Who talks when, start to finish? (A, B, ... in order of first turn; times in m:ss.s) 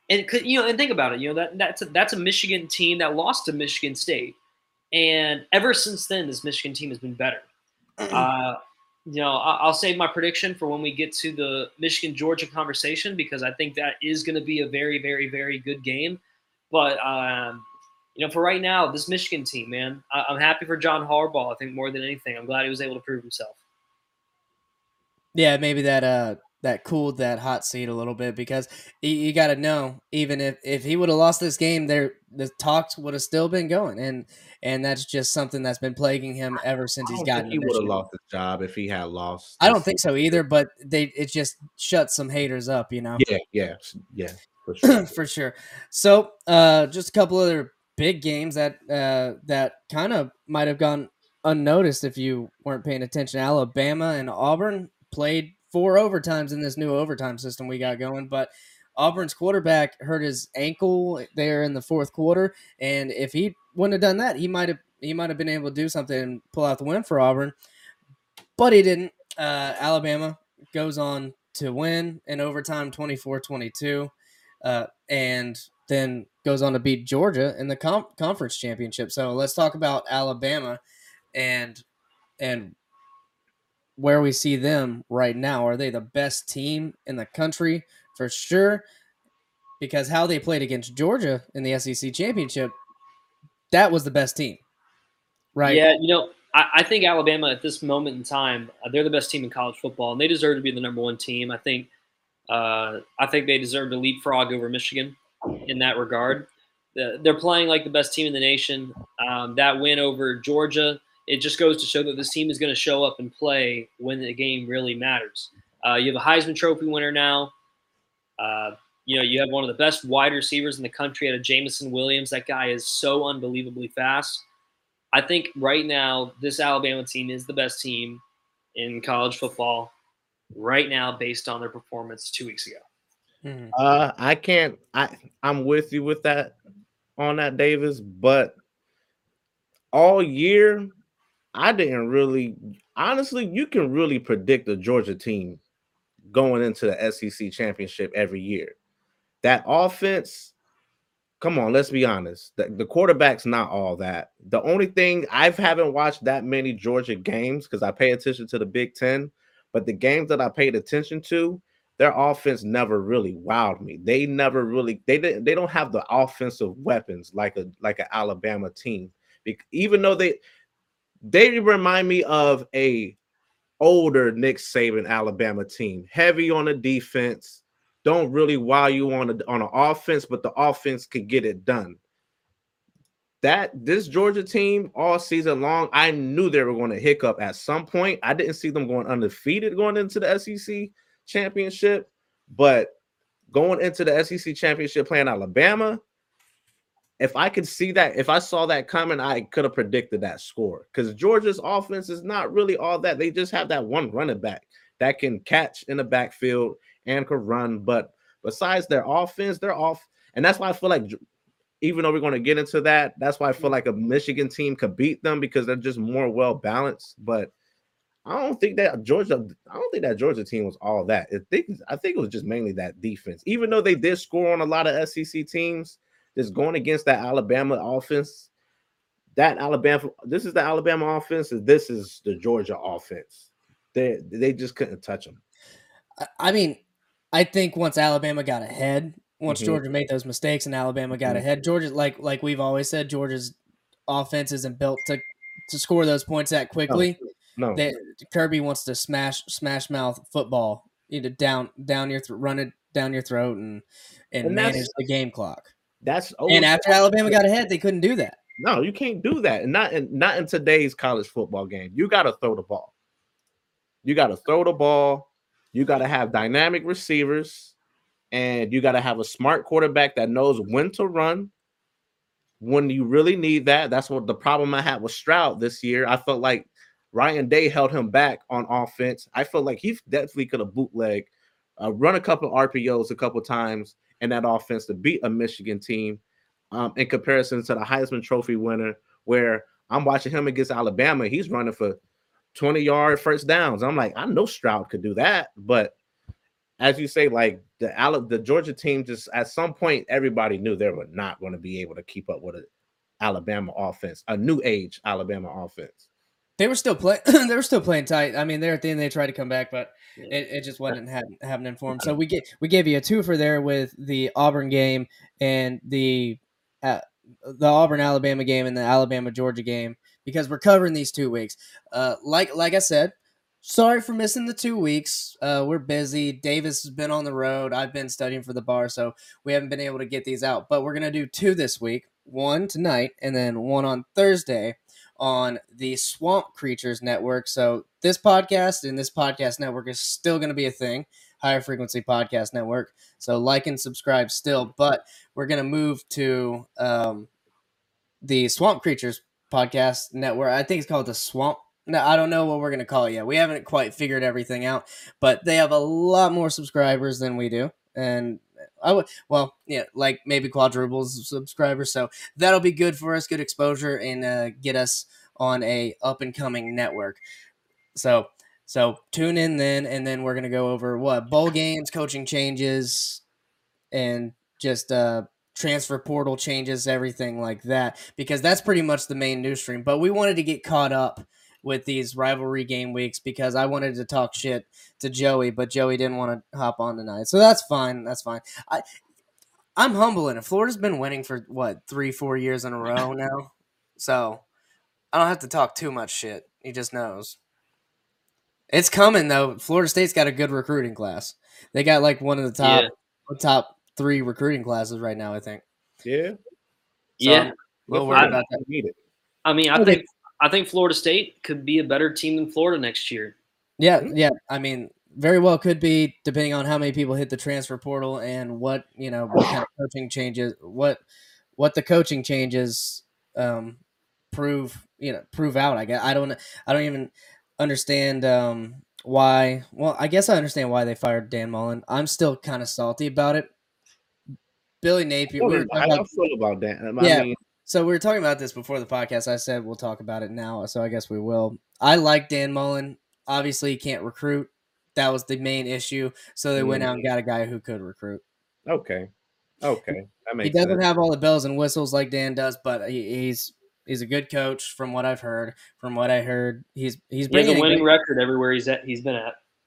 0:00.1-0:04.4 A
0:04.9-0:07.5 A
0:08.0-0:08.3 B
0:08.1-0:23.6 A
0:25.4-0:38.0 B
0:37.0-0:40.4 C
0:39.6-0:43.2 B
0:43.2-0:45.2 C
0:44.8-1:07.6 B
1:08.6-1:14.1 B
1:14.6-1:20.8 B
1:21.3-1:21.8 B
1:22.4-1:22.8 B
1:24.0-1:28.8 B
1:29.8-1:32.7 B
1:33.7-1:34.6 B
1:35.6-1:35.8 B
1:35.6-1:41.9 A
1:42.5-1:57.5 A
1:58.4-2:04.4 A
2:05.1-2:08.2 A
2:08.8-2:09.9 A
2:10.5-2:12.8 A
2:13.4-2:13.7 B
2:13.7-2:16.6 C
2:17.2-2:18.6 C
2:19.9-2:20.9 C
2:21.5-2:25.6 C
2:26.3-2:28.8 C
2:29.4-2:30.5 C
2:31.4-2:50.4 C
2:51.2-2:53.2 C
2:53.8-3:02.0 C
3:03.4-3:12.9 C
3:13.5-3:16.0 C
3:17.2-3:31.2 C
3:31.8-3:37.5 C
3:38.2-3:48.5 C
3:49.4-3:55.4 C
3:56.2-3:56.8 B
3:57.3-4:03.6 B
3:59.5-3:59.8 C
4:04.1-4:07.2 B
4:06.9-4:07.8 C
4:07.8-4:15.7 B
4:14.4-4:15.0 C
4:16.0-4:17.4 C
4:16.5-4:18.4 B
4:18.6-4:22.9 C
4:24.0-4:27.7 C
4:28.3-4:31.5 C
4:32.6-4:52.0 C
4:52.5-4:56.0 C
4:56.8-5:02.7 C
5:03.2-5:06.0 C
5:06.6-5:47.3 B
5:48.2-6:07.2 B
6:08.0-6:13.2 B
6:13.9-6:28.8 B
6:29.8-6:34.4 B
6:35.1-6:37.4 B
6:38.7-6:45.6 B
6:42.6-6:42.9 A
6:46.0-6:46.4 C
6:47.2-6:47.5 A
6:47.2-6:48.6 B
6:47.9-6:49.0 C
6:49.4-6:53.4 A
6:49.8-6:50.0 B
6:53.8-7:01.0 B
7:01.6-7:03.8 B
7:04.3-7:13.5 B
7:14.8-7:16.0 B
7:15.4-7:17.4 C
7:17.0-7:28.2 B
7:26.6-7:27.1 C
7:28.7-7:29.1 C
7:29.6-7:30.8 C
7:30.4-7:37.8 B
7:37.3-7:39.4 A